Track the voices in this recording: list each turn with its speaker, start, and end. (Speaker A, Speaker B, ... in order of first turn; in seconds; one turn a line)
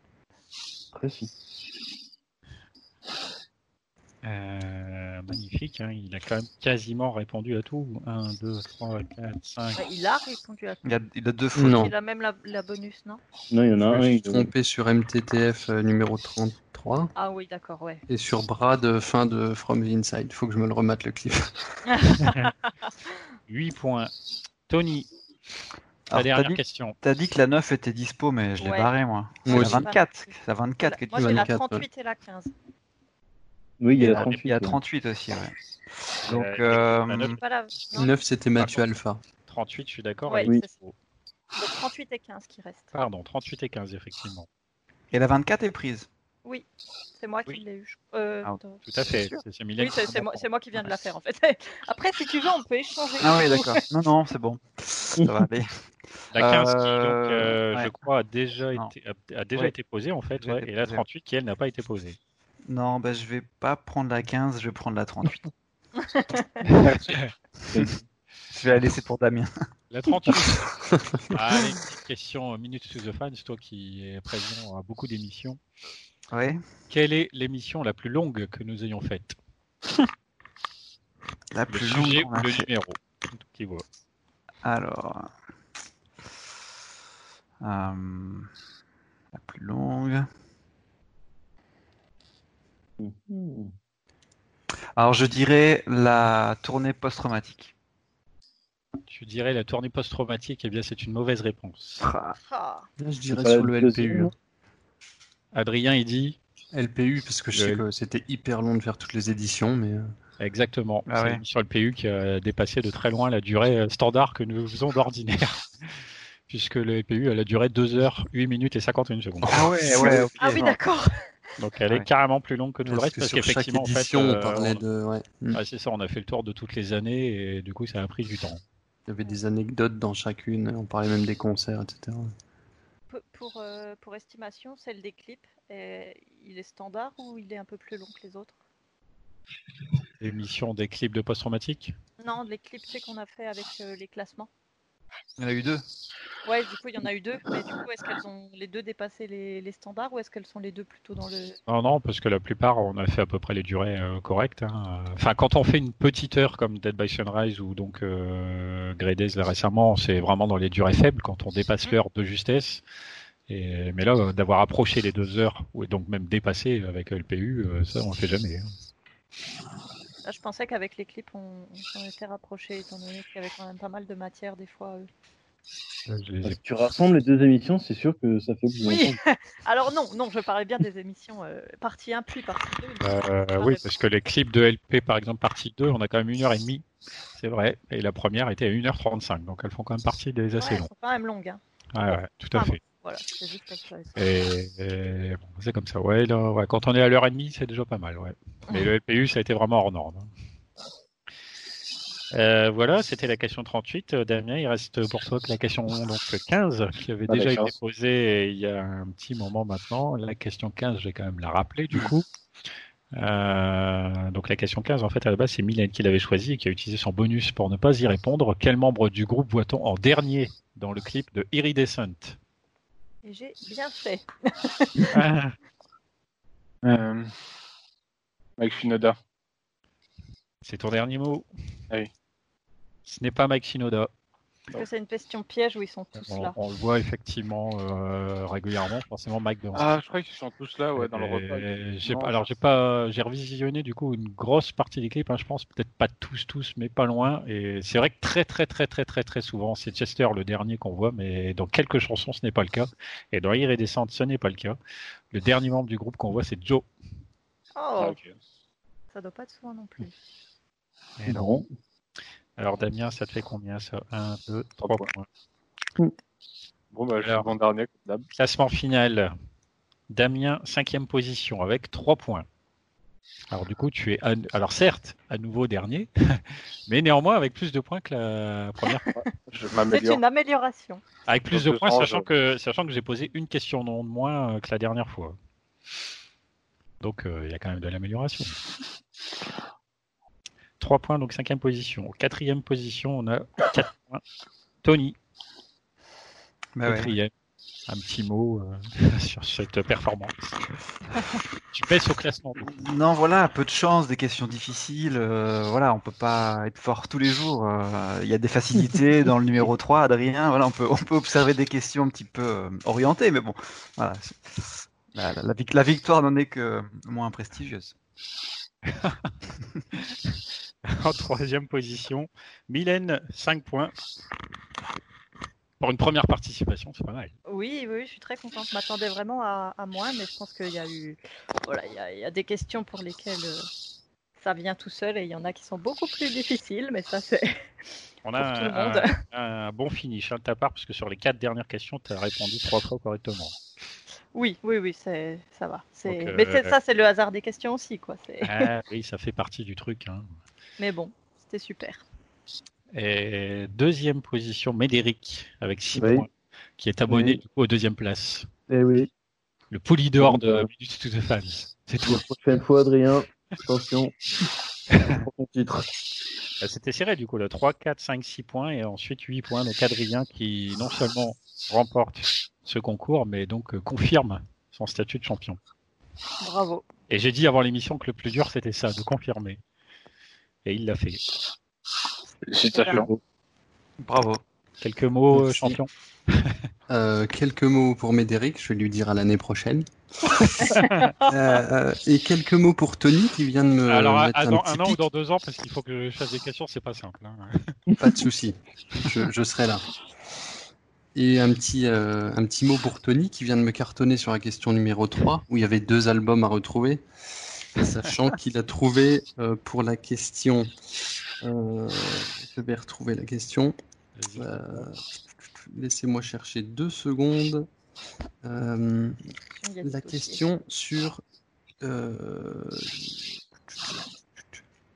Speaker A: 0.9-1.3
Speaker B: 4.2-9.8
Speaker C: 9.8-10.8
Speaker D: 10.8-11.8
Speaker E: 11.6-11.9
Speaker C: 11.6-13.2
Speaker A: 13.5-14.5
Speaker E: 13.9-17.1
Speaker C: 17.1-18.0
Speaker E: 18.1-21.7
Speaker C: 21.9-22.9
Speaker B: 22.2-22.5
Speaker B: 23.5-24.1
Speaker B: 24.7-25.1
Speaker D: 26.1-31.5
Speaker B: 26.1-27.0
Speaker C: 28.6-28.9
Speaker E: 29.4-29.9
Speaker C: 29.5-32.5
Speaker E: 31.1-31.9
Speaker A: 33.8-34.8
Speaker D: 34.0-35.5
Speaker D: 36.2-37.4
Speaker B: 36.3-37.9
Speaker C: 37.4-38.1
Speaker E: 37.9-39.2
Speaker B: 39.5-40.9
Speaker C: 40.3-40.7
Speaker C: 41.5-42.9
Speaker B: 42.9-44.5
Speaker D: 45.1-46.1
Speaker C: 47.2-48.8
Speaker B: 48.9-50.5
Speaker D: 49.1-49.4
Speaker C: 49.8-53.8
Speaker D: 53.2-55.7
Speaker A: 55.1-55.5
Speaker D: 56.3-57.9
Speaker B: 56.3-62.2
Speaker D: 60.4-61.0
Speaker D: 62.7-65.4
Speaker C: 66.0-66.6
Speaker F: 66.8-67.2
Speaker B: 67.0-67.3
Speaker D: 68.5-69.5
Speaker B: 69.9-70.7
Speaker B: 71.3-75.6
Speaker D: 76.3-76.6
Speaker B: 76.9-79.4
Speaker D: 81.5-82.7
Speaker B: 81.7-83.8
Speaker D: 84.6-85.3
Speaker D: 87.6-88.5
Speaker D: 89.3-90.3
Speaker A: 93.0-93.7
Speaker D: 95.0-97.7
Speaker B: 99.1-102.0
Speaker D: 102.0-102.4
Speaker C: 102.4-102.9
Speaker E: 103.0-104.3
Speaker A: 103.3-104.3
Speaker B: 105.5-106.4
Speaker E: 106.7-110.1
Speaker B: 107.5-107.8
Speaker B: 110.4-119.7
Speaker D: 111.1-111.4
Speaker D: 119.5-120.8
Speaker C: 120.4-121.2
Speaker B: 121.6-124.8
Speaker E: 122.8-125.6
Speaker B: 125.5-128.6
Speaker E: 129.1-132.3
Speaker C: 133.1-138.6
Speaker B: 140.2-141.9
Speaker C: 142.2-144.5
Speaker D: 145.4-145.8
Speaker C: 146.4-151.6
Speaker B: 151.7-162.8
Speaker B: 163.5-168.7
Speaker C: 170.2-175.1
Speaker B: 176.1-176.6
Speaker A: 176.4-179.2
Speaker C: 178.8-183.8
Speaker B: 183.0-190.9
Speaker C: 190.6-191.6
Speaker B: 191.9-192.8
Speaker C: 192.5-194.2
Speaker B: 194.2-200.3
Speaker B: 202.3-212.3
Speaker F: 207.3-207.7
Speaker B: 213.1-222.4
Speaker C: 223.2-225.2
Speaker B: 225.1-225.5
Speaker F: 226.8-227.3
Speaker F: 228.6-229.2
Speaker B: 230.6-231.5
Speaker B: 233.1-234.1
Speaker C: 234.7-236.6
Speaker B: 236.2-239.9
Speaker F: 239.7-242.4
Speaker B: 240.9-254.8
Speaker B: 255.3-256.9
Speaker C: 257.8-258.2
Speaker F: 258.0-258.4
Speaker C: 259.1-260.1
Speaker B: 261.2-261.6
Speaker A: 261.3-261.6
Speaker B: 262.6-265.3
Speaker F: 264.8-265.1
Speaker F: 266.9-268.3
Speaker B: 267.2-267.5
Speaker B: 268.4-269.3
Speaker B: 270.1-272.4
Speaker B: 273.5-279.1
Speaker C: 278.9-279.3
Speaker F: 279.1-280.2
Speaker C: 279.9-281.0
Speaker B: 281.3-285.4
Speaker F: 281.5-282.3
Speaker B: 287.0-288.6
Speaker B: 290.8-294.2
Speaker B: 294.8-295.1
Speaker D: 296.8-297.1
Speaker B: 296.8-297.3
Speaker B: 297.9-300.6
Speaker B: 301.7-302.8
Speaker D: 302.6-317.9
Speaker B: 318.9-319.3
Speaker B: 320.9-323.9
Speaker B: 325.8-327.3
Speaker C: 327.5-333.7
Speaker C: 334.4-337.6
Speaker B: 338.2-343.6
Speaker C: 338.4-339.1
Speaker C: 344.3-348.7
Speaker B: 346.1-346.8
Speaker B: 348.4-350.3
Speaker C: 350.8-352.0
Speaker B: 352.9-358.5
Speaker A: 355.9-356.3
Speaker A: 357.1-357.4
Speaker A: 358.7-359.1
Speaker B: 359.7-362.2
Speaker A: 360.2-360.7
Speaker A: 362.1-364.1
Speaker A: 365.0-365.9
Speaker B: 366.6-375.6
Speaker C: 376.4-376.9
Speaker B: 377.1-379.6
Speaker B: 380.6-381.2
Speaker F: 382.5-383.1
Speaker A: 382.9-383.2
Speaker D: 384.0-384.4
Speaker B: 384.8-386.6
Speaker D: 385.5-385.8
Speaker E: 386.9-395.0
Speaker B: 390.6-391.1
Speaker B: 393.9-397.7
Speaker A: 397.9-398.2
Speaker E: 398.0-399.9
Speaker E: 401.1-407.0
Speaker E: 407.6-410.7
Speaker E: 411.4-413.7
Speaker B: 414.1-414.6
Speaker E: 414.4-417.7
Speaker E: 418.4-419.2
Speaker C: 419.6-420.4
Speaker E: 419.8-421.2
Speaker E: 421.8-423.1
Speaker E: 423.7-424.6